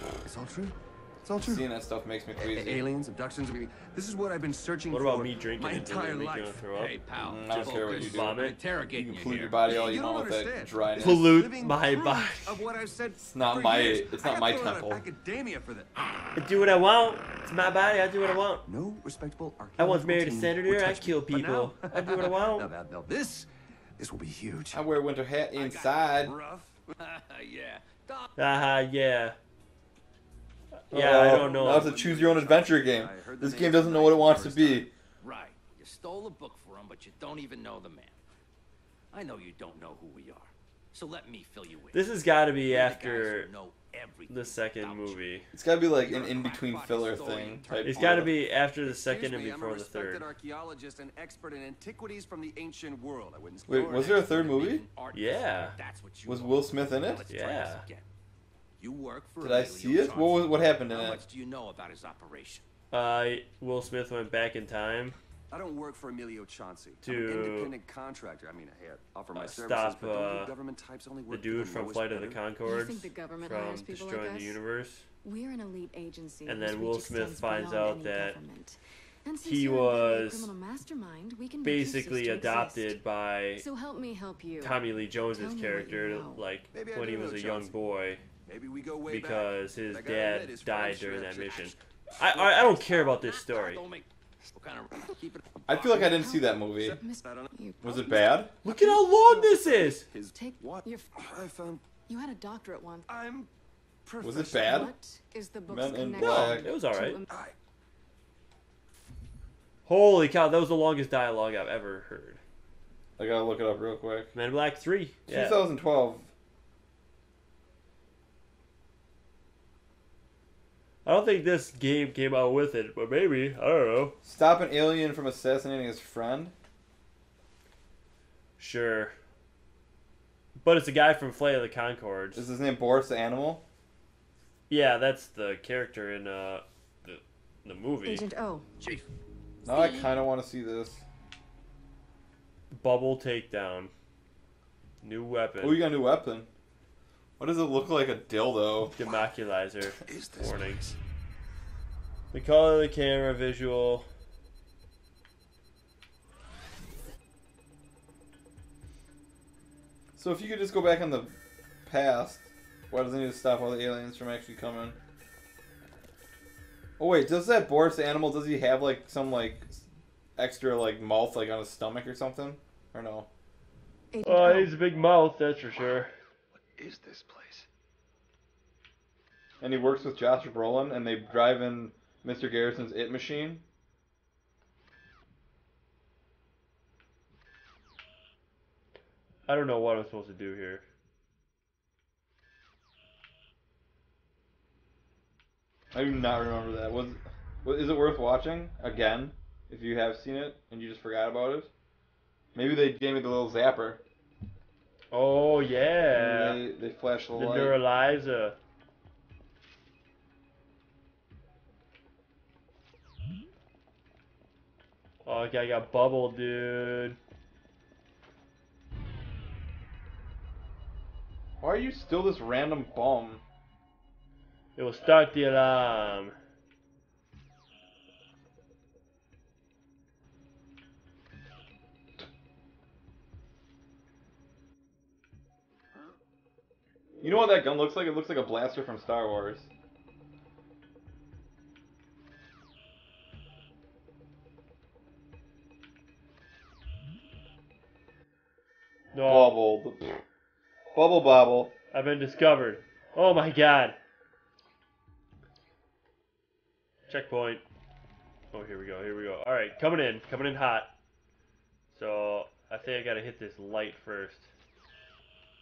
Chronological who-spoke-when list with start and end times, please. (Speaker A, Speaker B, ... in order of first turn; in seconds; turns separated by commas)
Speaker A: 0.3-0.8, Speaker A: 1.3-1.7, Speaker B: 1.4-2.9, Speaker A: 2.4-6.6, Speaker C: 4.9-7.0, Speaker D: 6.1-9.8, Speaker B: 7.2-11.5, Speaker C: 7.9-8.6, Speaker A: 9.7-16.3, Speaker C: 11.0-12.7, Speaker B: 13.3-15.1, Speaker C: 16.4-18.6, Speaker A: 18.7-24.8, Speaker C: 19.8-22.7, Speaker B: 24.7-26.4, Speaker D: 25.6-28.3, Speaker A: 26.5-26.7, Speaker C: 28.4-29.4, Speaker C: 30.8-31.9, Speaker B: 30.9-34.9, Speaker A: 31.3-33.9, Speaker D: 32.0-32.8, Speaker D: 33.5-38.2, Speaker D: 39.1-42.1, Speaker C: 41.9-43.5, Speaker D: 42.7-45.3, Speaker C: 44.3-45.5, Speaker B: 45.5-48.3, Speaker D: 46.0-48.3, Speaker C: 47.8-50.3, Speaker A: 48.9-54.0, Speaker D: 53.4-58.1, Speaker B: 53.7-54.9, Speaker C: 55.1-55.8, Speaker B: 56.3-57.3, Speaker C: 57.3-57.8, Speaker D: 58.8-62.6, Speaker B: 59.4-61.2, Speaker C: 62.9-65.2, Speaker A: 65.5-72.5, Speaker C: 67.0-67.8, Speaker C: 69.3-70.5, Speaker C: 71.3-75.1, Speaker E: 72.6-74.6, Speaker E: 75.2-83.0, Speaker C: 76.5-78.4, Speaker C: 79.4-80.5, Speaker C: 81.6-83.7, Speaker E: 83.6-86.5, Speaker C: 84.6-88.2, Speaker A: 86.7-87.8, Speaker A: 88.5-91.5, Speaker C: 89.1-93.8, Speaker D: 90.8-91.7, Speaker D: 92.3-96.0, Speaker B: 95.7-97.0, Speaker E: 96.0-99.6, Speaker A: 96.8-97.5, Speaker B: 97.8-98.5, Speaker C: 98.6-100.1, Speaker A: 99.7-101.9, Speaker E: 100.3-101.1, Speaker E: 102.1-103.1, Speaker A: 103.1-103.5, Speaker A: 104.0-104.8, Speaker B: 104.2-104.9, Speaker E: 104.5-107.4, Speaker B: 105.7-106.7, Speaker C: 106.2-107.2, Speaker C: 109.9-112.4, Speaker B: 113.2-114.3, Speaker C: 114.3-115.6, Speaker B: 115.3-116.3, Speaker C: 121.0-124.2, Speaker B: 124.2-126.5, Speaker C: 128.6-129.1, Speaker C: 130.6-132.4, Speaker B: 132.3-133.6, Speaker C: 134.7-138.3, Speaker E: 138.0-138.7, Speaker D: 138.8-139.1, Speaker B: 139.7-141.1, Speaker E: 139.7-140.1, Speaker C: 142.7-143.9, Speaker C: 145.0-145.8, Speaker B: 145.6-146.5, Speaker B: 147.4-148.9, Speaker C: 149.0-150.9, Speaker A: 150.1-151.0, Speaker C: 152.3-154.1, Speaker B: 160.2-165.0, Speaker B: 167.0-169.8, Speaker B: 170.4-173.3, Speaker E: 174.1-174.7, Speaker C: 174.2-176.1, Speaker A: 176.8-177.7, Speaker B: 179.6-183.6, Speaker C: 189.5-190.8, Speaker B: 195.9-201.7, Speaker B: 202.6-204.0, Speaker C: 205.1-206.6, Speaker B: 206.1-207.8, Speaker C: 207.3-208.6, Speaker C: 215.2-217.2, Speaker B: 221.6-223.4, Speaker C: 224.8-226.3, Speaker B: 237.2-239.7, Speaker C: 249.1-249.6, Speaker B: 249.2-250.2, Speaker B: 250.9-251.7, Speaker C: 251.9-254.0, Speaker C: 257.1-257.6, Speaker C: 258.5-260.9, Speaker C: 261.9-264.5